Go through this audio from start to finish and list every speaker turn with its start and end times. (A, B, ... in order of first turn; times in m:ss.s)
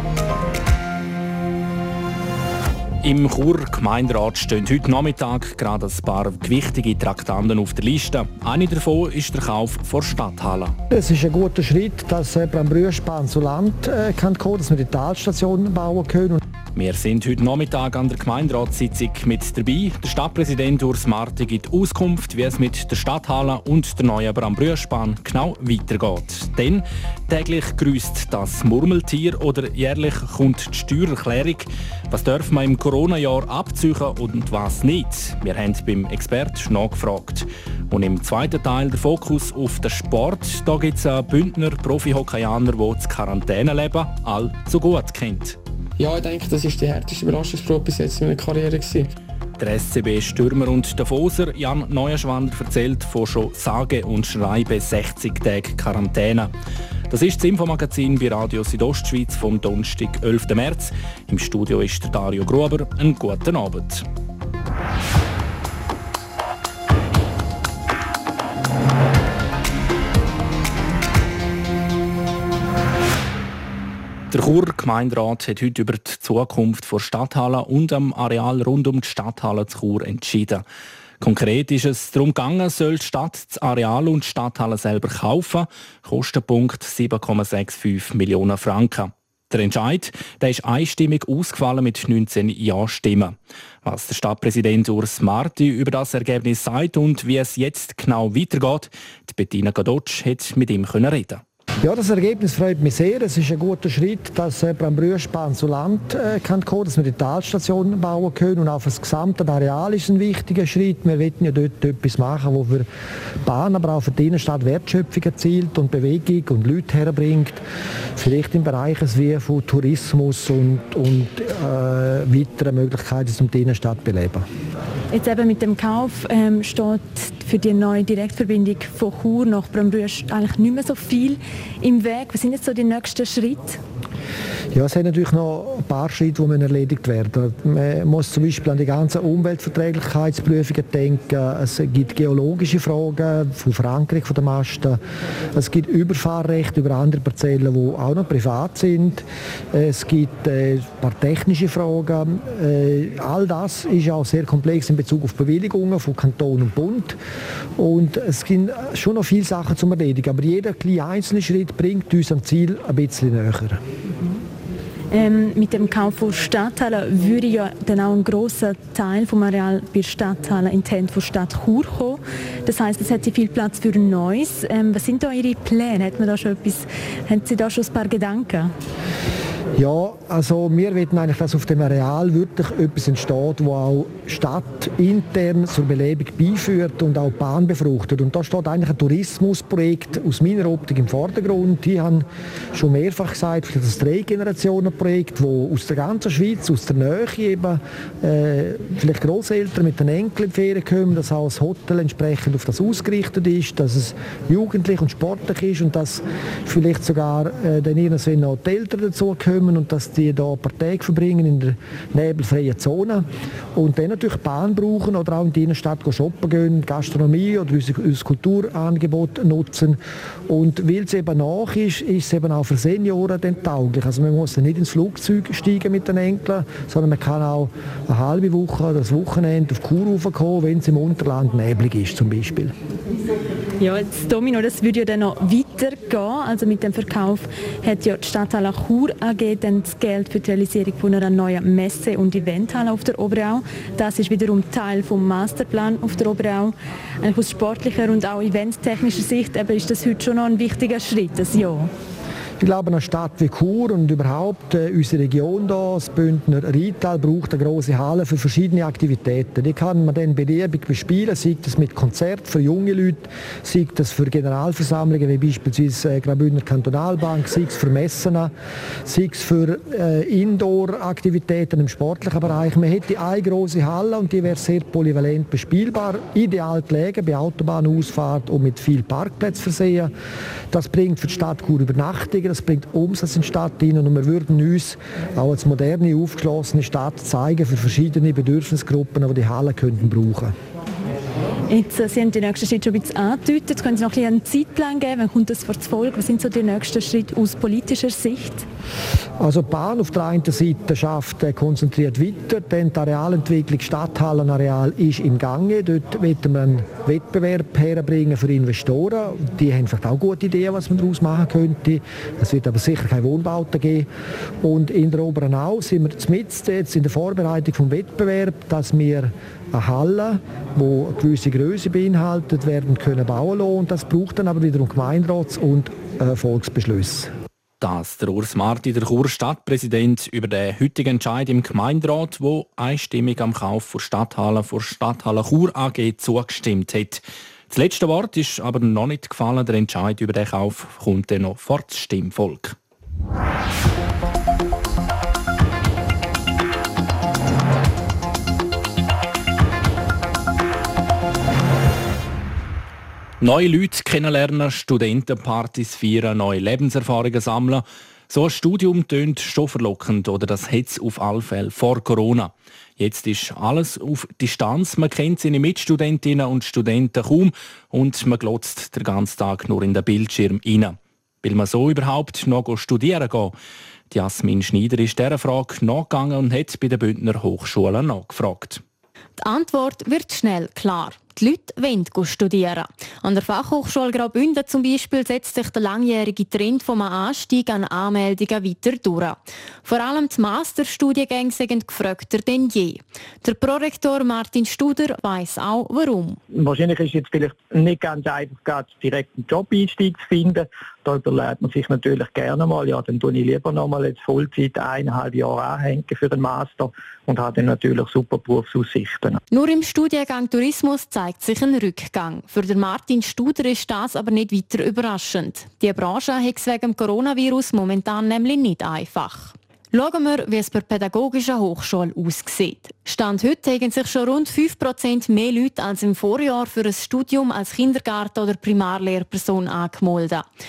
0:03.0-0:10.8 A
0:10.9-0:16.4 B
0:16.7-0:45.6 A
0:46.0-0:49.1 C
0:49.6-0:56.5 A
0:57.1-1:04.0 A
1:14.3-1:20.6 A
1:21.2-1:41.4 A
1:41.8-1:52.9 B
1:53.4-1:57.6 B
1:58.2-2:04.4 B
2:05.1-2:13.8 D
2:14.7-2:25.0 B
2:25.5-2:37.2 B
2:37.8-2:43.8 B
2:45.1-2:58.7 D
2:59.8-3:52.7 B
3:53.8-4:11.9 D
4:12.6-4:28.5 B
4:29.0-4:40.1 B
4:40.7-4:50.5 B
4:51.7-4:58.6 D
4:59.4-5:14.1 B
5:14.6-5:27.3 B
5:27.8-5:42.8 A
5:53.4-6:13.6 A
6:14.1-6:18.8 A
6:19.4-6:36.4 E
6:36.5-6:49.4 F
6:49.5-7:10.5 E